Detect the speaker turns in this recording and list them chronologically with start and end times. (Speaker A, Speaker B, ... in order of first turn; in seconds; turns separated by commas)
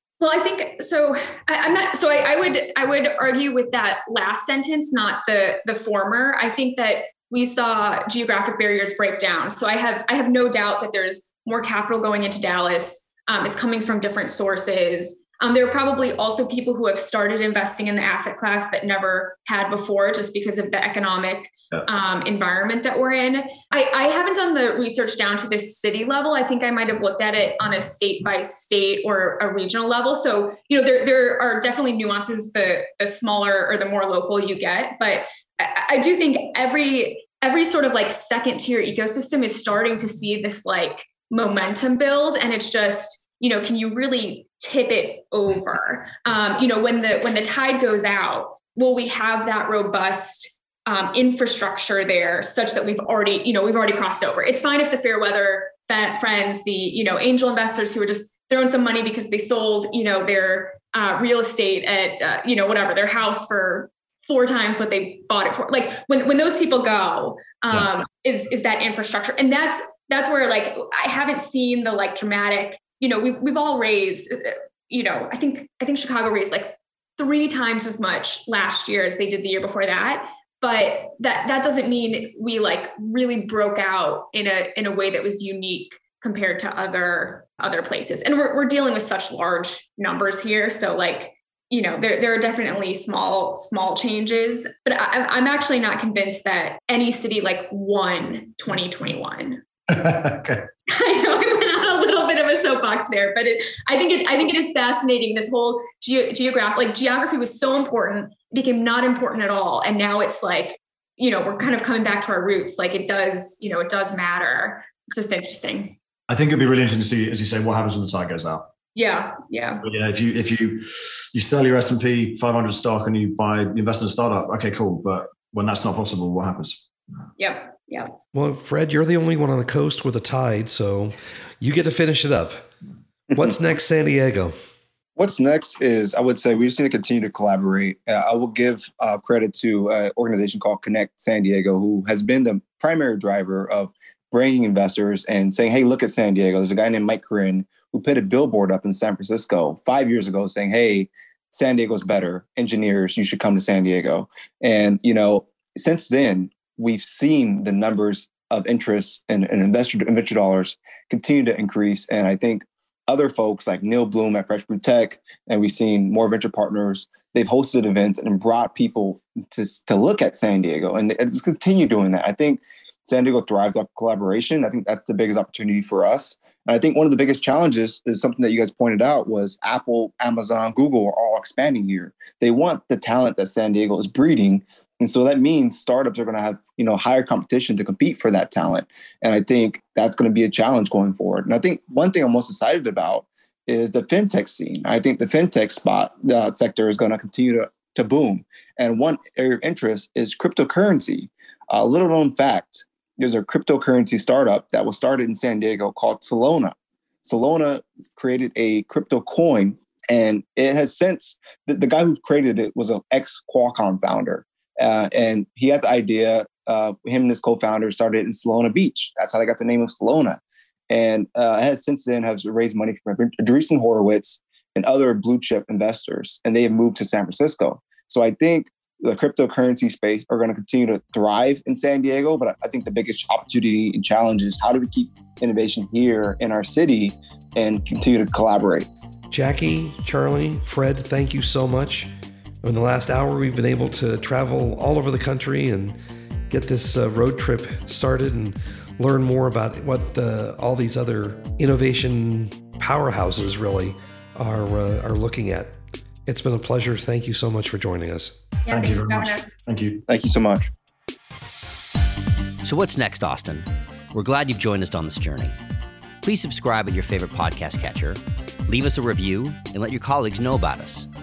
Speaker A: 0.2-99.6, Speaker B: 99.9-100.7, Speaker A: 100.9-116.0, Speaker B: 116.3-118.7, Speaker A: 118.9-119.8, Speaker B: 119.8-126.8, Speaker A: 127.4-128.1, Speaker C: 128.3-132.7, Speaker C: 133.3-134.5, Speaker D: 135.2-238.9, Speaker C: 239.3-242.1, Speaker C: 242.6-246.0, Speaker C: 246.5-258.4, Speaker A: 258.6-259.6, Speaker B: 258.7-260.0, Speaker D: 260.1-260.7, Speaker E: 262.6-265.5, Speaker E: 266.2-271.1